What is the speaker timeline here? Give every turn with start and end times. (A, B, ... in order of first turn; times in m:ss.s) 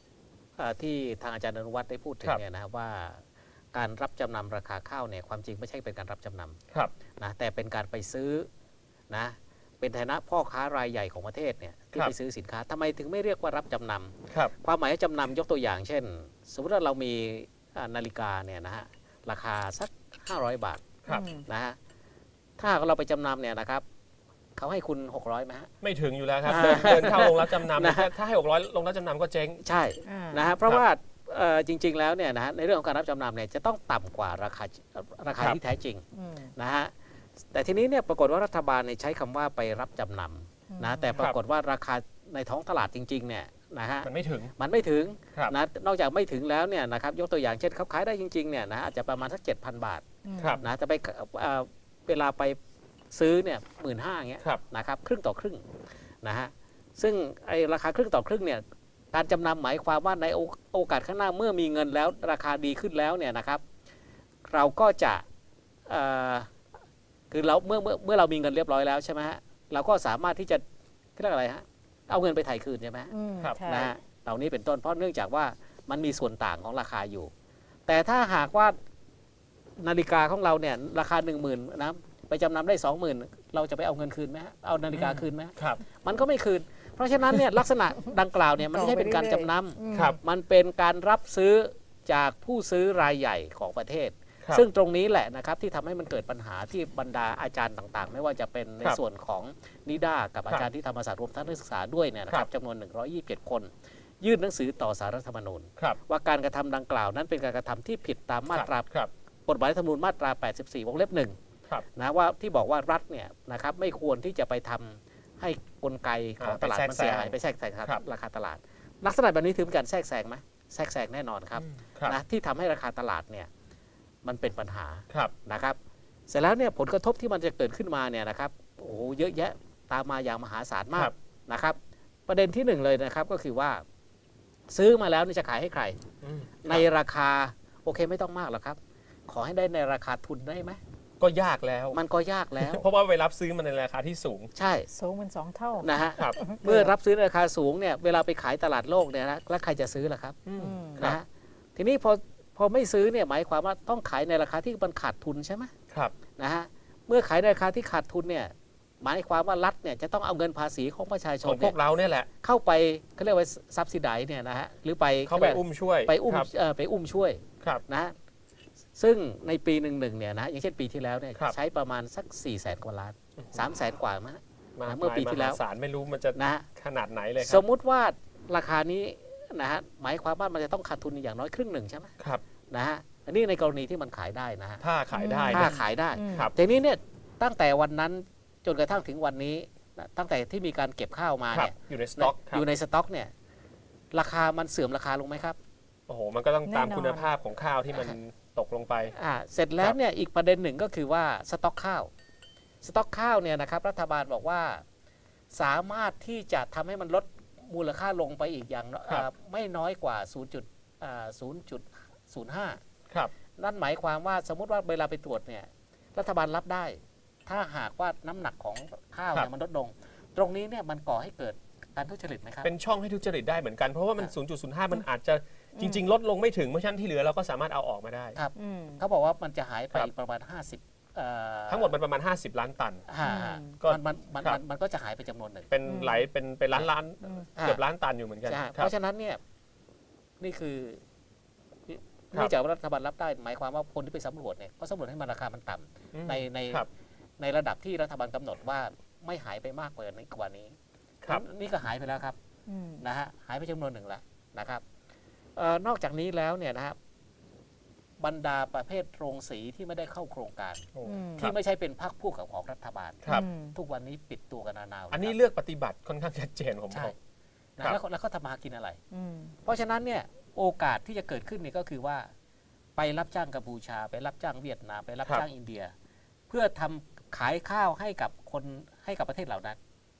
0:00.6-0:03.2 A
0:03.7-0:06.6 A
0:07.2-0:08.5 A
0:09.1-0:21.8 A
0:21.1-0:21.4 B
0:22.6-0:23.8 A
0:24.6-0:25.7 A
0:25.8-0:29.6 C
0:26.4-0:28.1 A
0:29.6-0:36.0 A
0:30.0-0:30.5 B
0:36.1-0:36.5 B
0:36.6-0:50.0 A
0:40.7-0:41.2 B
0:44.0-0:44.5 C
0:50.2-0:50.6 B
0:50.4-0:50.6 C
0:50.6-0:52.6 A
0:53.1-0:55.6 A
0:56.2-1:03.6 A
1:04.5-1:05.2 A
1:05.9-1:06.5 A
1:07.3-1:10.6 A
1:11.2-1:13.1 A
1:13.1-1:13.9 B
1:13.6-1:17.3 A
1:17.9-1:18.8 A
1:19.8-1:48.9 A
1:24.9-1:25.8 C
1:28.7-1:30.2 B
1:29.9-1:30.2 C
1:48.5-1:49.1 C
1:49.5-1:51.3 A
1:51.9-2:03.5 A
1:56.4-1:58.0 C
2:01.6-2:02.2 C
2:04.2-2:13.8 A
2:14.7-2:16.0 A
2:16.2-2:16.9 C
2:16.6-2:20.8 A
2:21.2-2:22.0 C
2:21.9-2:22.8 A
2:22.6-2:24.5 C
2:24.6-2:24.9 A
2:24.9-2:26.9 B
2:25.8-2:30.4 A
2:30.4-2:31.2 C
2:30.6-2:31.1 B
2:31.0-2:31.2 A
2:31.8-2:35.7 A
2:36.4-2:41.7 A
2:41.4-2:42.3 C
2:42.4-2:48.1 A
2:45.2-2:46.5 C
2:49.0-2:55.6 A
2:54.8-2:57.6 C
2:56.4-2:56.6 A
2:57.4-3:02.1 A
3:02.7-3:04.8 A
3:04.8-3:05.8 C
3:05.1-3:06.5 B
3:05.5-3:13.3 A
3:11.5-3:12.6 C
3:14.1-3:15.6 A
3:16.1-3:19.1 C
3:16.6-3:17.3 B
3:19.2-3:22.1 A
3:22.8-3:24.8 A
3:25.5-3:32.8 A
3:33.6-3:42.7 A
3:42.6-3:48.4 C
3:45.7-3:46.0 B
3:48.4-3:51.9 A
3:48.6-3:49.0 B
3:51.7-3:53.0 C
3:53.1-3:55.7 A
3:53.2-3:53.8 B
3:53.8-3:54.6 C
3:55.7-3:58.9 C
3:55.8-3:56.2 B
3:58.5-3:59.4 A
4:00.4-4:01.0 A
4:01.9-4:06.8 A
4:06.1-4:06.9 C
4:07.4-4:10.7 A
4:11.3-4:12.4 A
4:12.7-4:13.0 B
4:13.0-4:14.8 A
4:15.6-4:17.0 A
4:18.2-4:25.4 A
4:20.9-4:21.6 C
4:21.0-4:21.5 B
4:23.3-4:23.8 B
4:25.1-4:27.1 C
4:27.8-4:29.0 A
4:29.1-4:29.6 B
4:29.6-4:32.3 A
4:33.0-4:35.9 A
4:36.5-4:39.8 A